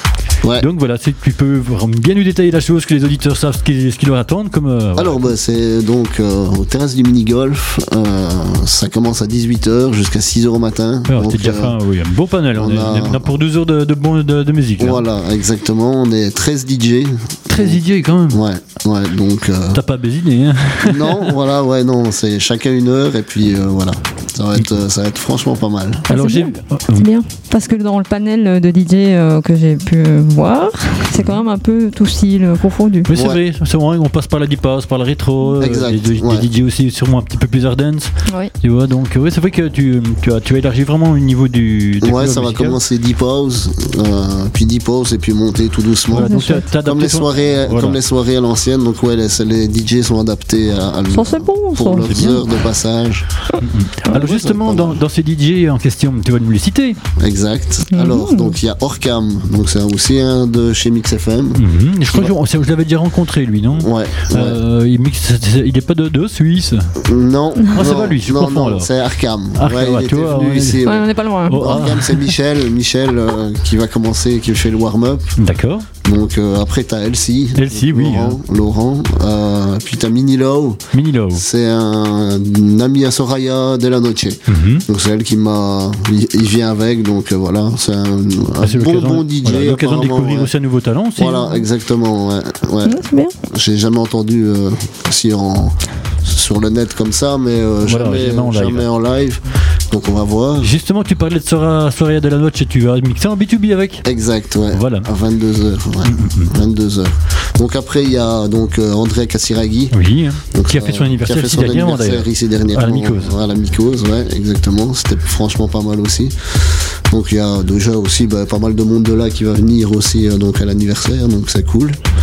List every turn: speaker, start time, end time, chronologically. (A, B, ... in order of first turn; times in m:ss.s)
0:00.6-0:05.3 A
0:05.0-0:11.8 B
0:11.1-0:15.0 A
0:12.6-0:13.3 B
0:14.8-0:17.8 B
0:17.5-0:18.4 A
0:18.3-0:19.8 B
0:19.7-0:21.4 A
0:20.8-0:26.1 B
0:26.1-0:33.1 C
0:26.1-0:27.1 A
0:31.1-0:31.4 A
0:33.1-0:42.8 A
0:33.1-0:33.4 B
0:35.6-0:36.5 B
0:38.3-0:38.5 C
0:42.0-0:53.4 B
0:46.1-0:48.0 A
0:46.2-0:46.7 C
0:51.1-0:52.4 C
0:52.0-0:52.5 A
0:53.6-0:57.0 A
0:54.1-0:55.0 B
0:57.2-1:02.4 B
0:57.9-0:58.6 C
1:01.6-1:06.9 A
1:03.8-1:04.6 B
1:07.0-1:15.4 B
1:07.7-1:08.9 A
1:09.6-1:10.8 A
1:10.8-1:11.8 C
1:11.5-1:12.4 A
1:15.4-1:15.9 A
1:16.0-1:20.8 B
1:17.6-1:18.4 A
1:20.9-1:21.4 A
1:21.4-1:30.5 B
1:24.5-1:24.8 A
1:28.6-1:31.4 A
1:31.2-1:40.7 B
1:32.8-1:33.3 C
1:37.8-1:38.9 A
1:40.6-1:44.1 A
1:44.0-1:50.0 B
1:44.7-1:45.1 A
1:46.0-1:46.5 A
1:49.9-1:53.3 A
1:50.5-2:02.0 B